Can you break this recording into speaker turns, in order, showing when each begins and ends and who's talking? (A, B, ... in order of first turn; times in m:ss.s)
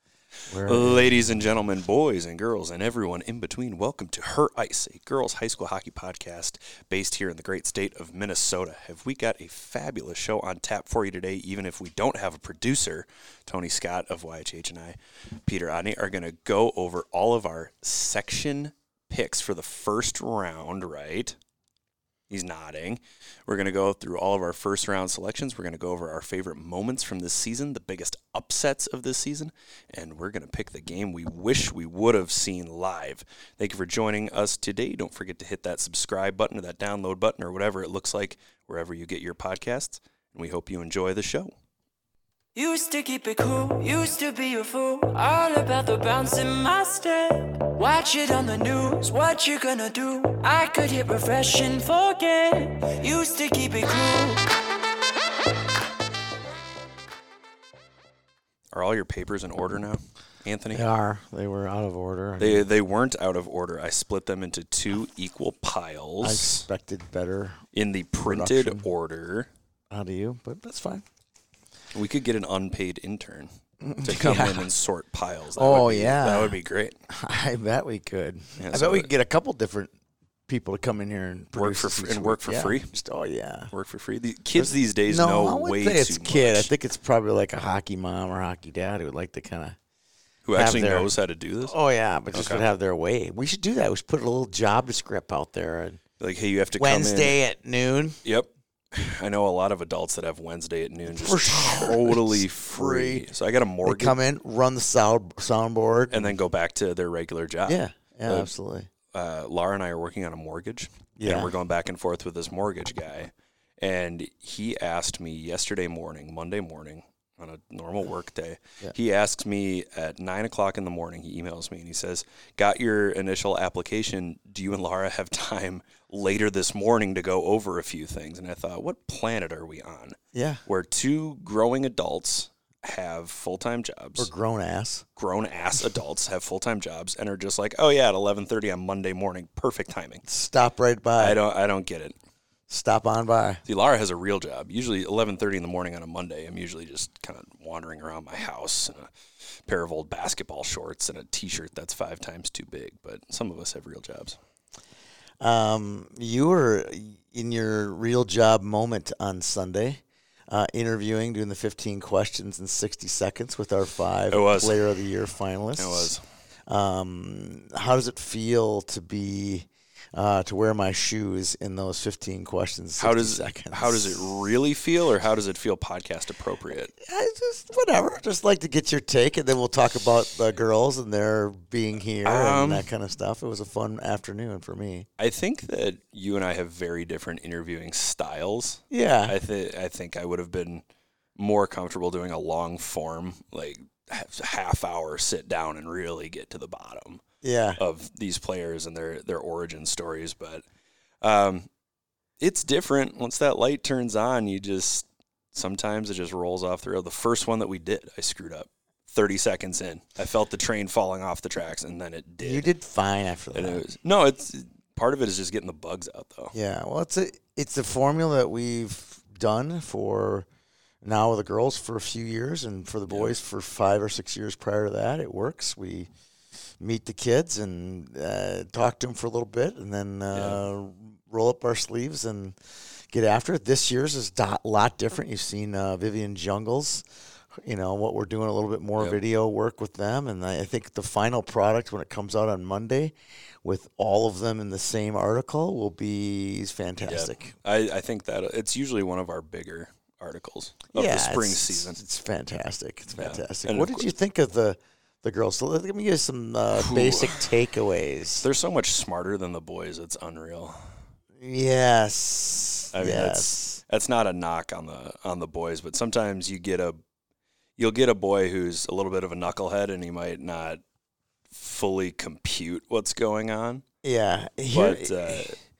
0:00.5-0:01.4 A
0:00.6-0:21.4 B
0:22.3-0:41.5 B
0:42.5-0:54.5 C
0:58.7-1:00.8 B
1:00.7-1:02.7 A
1:02.4-1:06.6 B
1:06.2-1:07.6 A
1:07.7-1:09.5 B
1:08.2-1:08.9 A
1:09.9-1:11.0 A
1:11.9-1:13.5 B
1:13.8-1:14.7 A
1:14.0-1:17.0 B
1:15.6-1:19.9 A
1:18.6-1:19.1 B
1:20.5-1:23.7 A
1:21.5-1:22.9 B
1:23.7-1:26.7 B
1:24.5-1:29.8 A
1:30.4-1:31.7 B
1:30.5-1:31.1 A
1:31.6-1:36.0 A
1:32.3-1:32.6 B
1:36.2-1:37.4 B
1:36.8-1:38.2 A
1:38.2-1:44.2 B
1:41.1-1:43.2 A
1:43.8-1:46.4 A
1:46.1-1:48.5 B
1:47.6-1:48.9 A
1:49.1-2:14.3 B
1:51.2-1:51.5 A
2:10.3-2:10.6 A
2:14.2-2:15.0 A
2:15.2-2:20.2 B
2:20.2-2:21.4 A
2:21.2-2:22.2 B
2:22.7-2:23.6 A
2:23.6-2:29.1 B
2:29.6-2:34.4 B
2:35.4-2:46.1 A
2:44.3-2:44.8 B
2:45.8-2:46.2 B
2:46.7-2:54.2 A
2:53.0-2:56.9 B
2:56.9-3:05.1 A
3:02.2-3:02.9 B
3:05.2-3:10.8 B
3:08.9-3:09.4 A
3:11.4-3:17.2 B
3:17.4-3:17.8 A
3:17.8-3:20.6 B
3:21.2-3:21.7 B
3:22.4-3:32.6 B
3:32.4-3:33.8 A
3:33.5-3:36.5 B
3:36.5-3:40.4 A
3:41.0-3:46.1 A
3:43.1-3:43.3 B
3:46.8-3:52.6 A
3:50.3-3:50.6 B
3:53.1-3:57.0 A
3:57.6-4:07.5 A
4:07.0-4:12.0 B
4:10.9-4:18.4 A
4:13.2-4:14.1 B
4:16.7-4:17.5 B
4:18.4-4:20.8 B
4:21.4-4:23.8 A
4:22.9-4:27.0 B
4:27.8-4:30.8 B
4:31.5-4:33.8 B
4:34.0-4:35.5 A
4:34.7-4:35.6 B